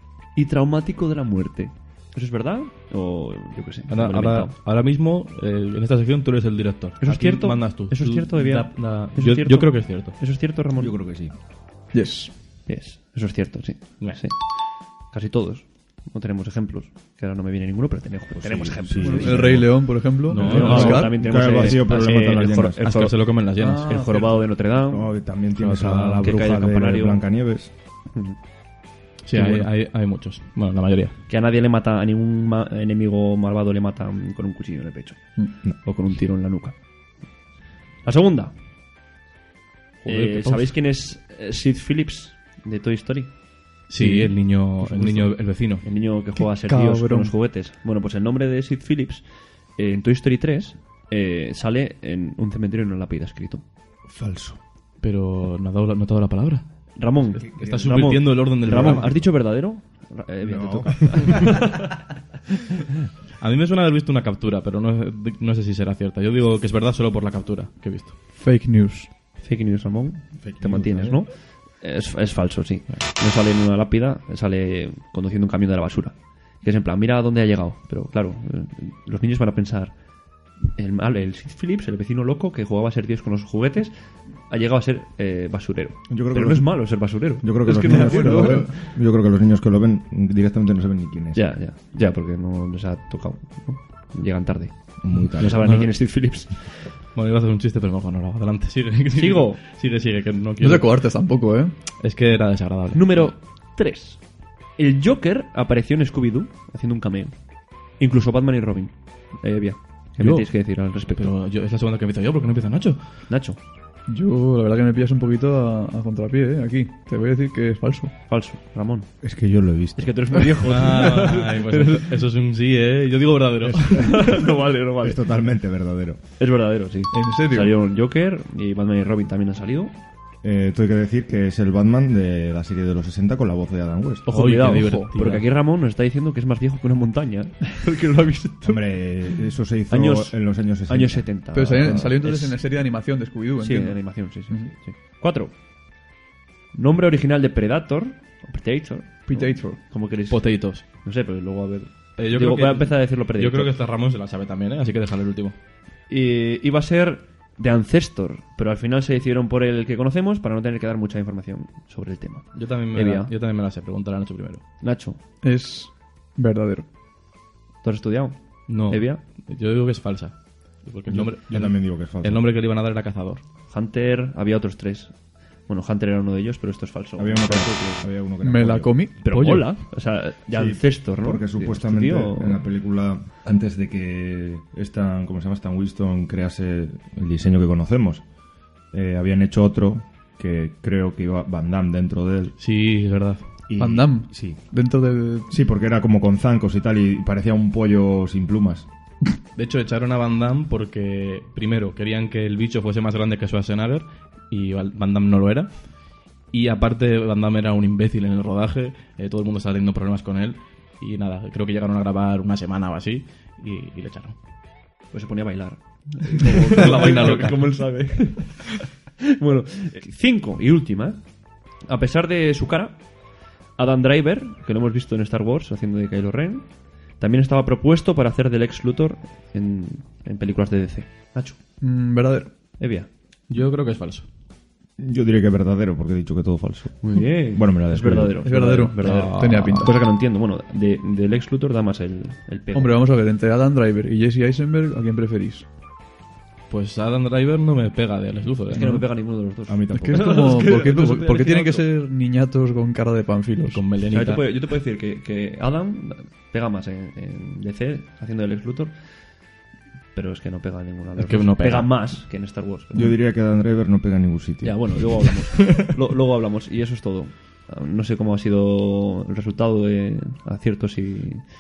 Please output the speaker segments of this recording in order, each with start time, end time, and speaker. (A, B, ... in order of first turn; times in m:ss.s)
0:00.4-0:04.5 A
0:03.9-0:10.2 B
0:07.0-0:10.9 A
0:10.8-0:11.3 C
0:11.9-0:12.3 D
0:12.7-0:14.5 A
0:15.1-0:19.6 A
0:18.3-0:19.8 C
0:19.0-0:21.2 D
0:20.3-0:21.1 B
0:20.4-0:23.3 A
0:20.4-0:22.8 C
0:22.8-0:24.0 B
0:23.6-0:24.4 D
0:23.9-0:25.1 A
0:24.8-0:27.7 C
0:25.6-0:26.4 B
0:26.2-0:27.2 A
0:28.1-0:28.4 A
0:29.2-0:31.2 B
0:31.3-0:36.8 A
0:38.0-0:38.5 A
0:40.0-0:40.7 B
0:40.0-0:43.3 A
0:43.9-0:45.8 B
0:44.8-0:49.2 A
0:46.4-0:47.3 D
0:49.8-0:53.6 A
0:54.1-0:54.6 C
0:55.0-0:56.7 B
0:57.0-1:02.0 A
0:57.4-0:59.2 B
0:57.4-0:59.1 C
1:00.4-1:01.6 C
1:03.4-1:08.1 B
1:08.4-1:09.1 D
1:09.4-1:19.9 A
1:10.4-1:11.2 C
1:20.7-1:23.9 A
1:24.5-1:28.8 A
1:26.1-1:31.5 C
1:27.8-1:28.7 D
1:31.4-1:36.7 A
1:35.0-1:35.6 C
1:35.6-1:35.9 B
1:37.2-1:40.9 B
1:39.1-1:39.6 A
1:40.6-1:41.7 D
1:42.0-1:43.3 B
1:42.9-1:44.2 A
1:44.8-1:47.4 A
1:48.0-1:51.3 A
1:50.2-1:50.5 B
1:51.1-1:53.0 B
1:53.3-1:53.6 A
1:54.1-1:58.2 D
1:58.3-1:59.1 A
1:59.2-2:00.2 C
2:00.0-2:02.1 A
2:00.6-2:04.3 B
2:03.7-2:04.3 C
2:03.9-2:05.2 A
2:05.0-2:06.2 C
2:06.4-2:09.9 A
2:07.1-2:07.8 D
2:10.4-2:14.3 C
2:14.3-2:15.4 B
2:14.3-2:18.8 A
2:18.6-2:22.1 C
2:19.9-2:22.6 A
2:21.5-2:24.7 D
2:23.6-2:25.5 A
2:26.7-2:33.7 A
2:29.3-2:29.8 D
2:30.3-2:30.8 B
2:32.2-2:35.6 B
2:36.1-2:43.3 A
2:42.5-2:44.6 B
2:44.8-2:45.2 A
2:45.4-2:46.9 D
2:47.8-2:49.2 A
2:48.7-2:53.4 B
2:51.1-2:52.4 C
2:53.7-2:55.2 A
2:55.7-2:58.1 A
2:57.2-2:59.0 C
2:58.4-2:59.2 D
2:59.2-3:02.6 A
2:59.3-2:59.7 B
3:00.5-3:08.2 C
3:08.9-3:12.5 C
3:12.6-3:13.4 B
3:13.7-3:14.6 C
3:13.8-3:15.5 D
3:15.5-3:18.9 C
3:19.6-3:25.7 B
3:26.5-3:34.4 B
3:35.1-3:41.2 A
3:36.5-3:37.7 B
3:41.9-3:43.0 A
3:43.8-3:51.6 A
3:51.8-3:52.5 D
3:52.8-3:53.1 A
3:53.5-3:54.3 B
3:55.0-3:58.4 C
3:57.0-4:03.0 A
3:58.4-4:00.0 D
3:59.0-3:59.9 B
4:02.7-4:05.6 D
4:06.7-4:09.0 B
4:08.7-4:11.8 A
4:09.7-4:10.5 C
4:09.9-4:13.8 D
4:13.7-4:14.4 B
4:14.1-4:18.9 A
4:20.1-4:23.2 A
4:21.2-4:21.9 B
4:22.9-4:25.1 C
4:24.6-4:31.4 A